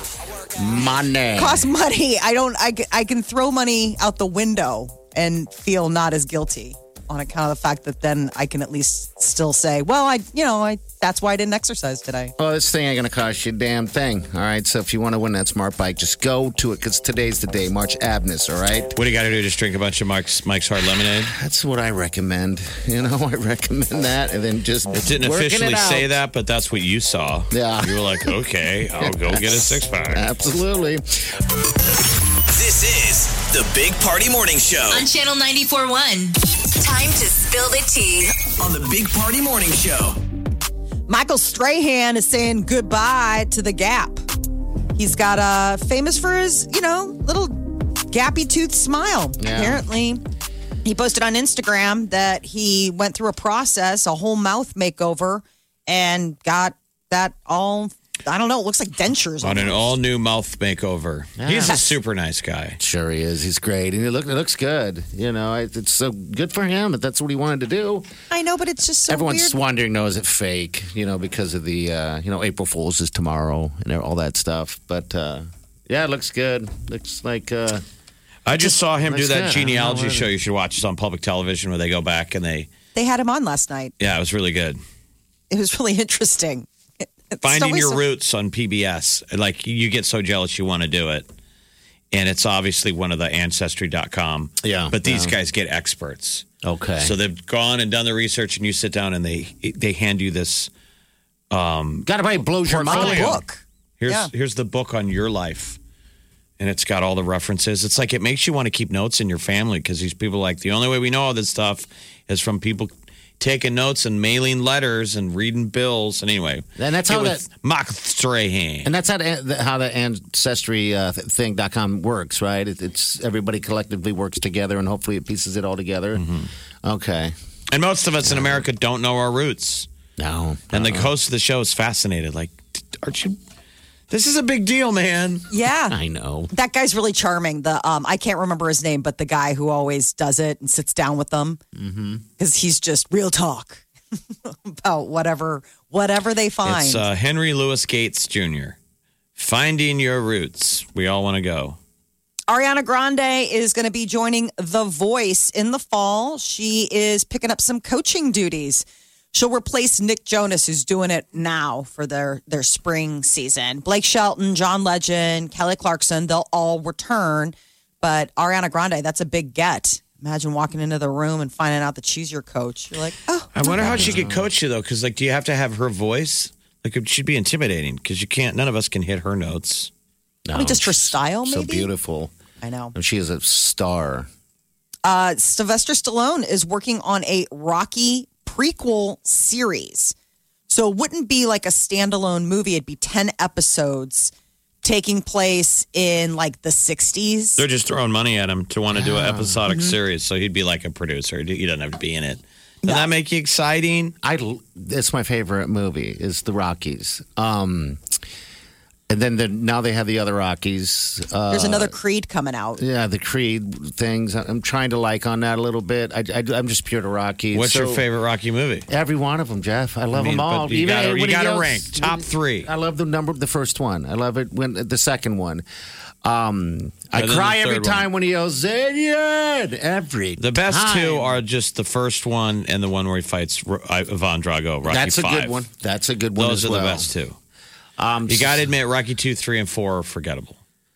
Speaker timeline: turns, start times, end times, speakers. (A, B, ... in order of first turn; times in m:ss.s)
0:00.6-0:01.7 A
0:01.4-0:12.3 B
0:12.4-0:19.0 A
0:19.0-0:21.3 C
0:21.0-0:26.2 A
0:24.9-0:30.3 C
0:27.5-0:28.3 A
0:29.0-0:31.4 A
0:32.5-0:35.1 D
0:34.9-0:38.5 E
0:38.6-0:40.2 D
0:41.1-0:44.2 B
0:45.0-0:50.2 B
0:49.4-0:49.8 A
0:50.8-0:59.9 B
0:59.4-1:02.8 C
1:01.4-1:01.9 A
1:02.8-1:08.1 A
1:08.3-1:09.6 B
1:09.1-1:17.8 A
1:18.5-1:22.7 C
1:18.6-1:20.3 A
1:23.0-1:23.9 B
1:24.0-1:24.8 C
1:25.5-1:26.7 B
1:27.3-1:28.0 B
1:27.4-1:31.3 C
1:32.1-1:36.5 C
1:34.6-1:35.4 A
1:36.6-1:37.2 A
1:37.0-1:40.7 C
1:41.5-1:43.4 C
1:42.1-1:43.4 A
1:42.8-1:44.3 B
1:44.0-1:45.8 C
1:46.6-1:58.9 C
1:56.8-1:57.4 A
1:58.8-2:06.2 A
2:06.2-2:06.5 C
2:06.8-2:07.3 A
2:07.7-2:09.9 C
2:08.2-2:08.7 A
2:10.2-2:11.1 A
2:10.7-2:13.4 C
2:14.1-2:15.5 C
2:15.5-2:16.0 B
2:15.9-2:16.5 A
2:16.5-2:21.6 B
2:21.8-2:22.2 A
2:22.4-2:23.8 B
2:24.5-2:27.0 B
2:26.6-2:28.8 C
2:29.4-2:31.8 C
2:32.5-2:54.2 B
2:53.6-2:59.9 C
2:53.7-2:54.5 A
3:00.5-3:02.3 A
3:00.5-3:01.9 B
3:02.6-3:03.0 B
3:02.9-3:04.3 A
3:05.0-3:10.1 B
3:10.7-3:14.3 B
3:14.8-3:17.6 B
3:17.6-3:24.2 C
3:18.9-3:19.8 A
3:22.8-3:23.1 B
3:24.2-3:28.0 A
3:29.1-3:31.9 A
3:31.5-3:32.8 B
3:32.8-3:38.0 A
3:37.5-3:38.9 C
3:38.9-3:45.6 A
3:40.1-3:42.7 C
3:46.2-3:51.4 A
3:47.1-3:48.1 C
3:50.4-3:55.6 C
3:54.8-3:57.1 A
3:56.4-3:57.4 C
3:58.0-3:58.7 A
3:58.3-4:00.6 C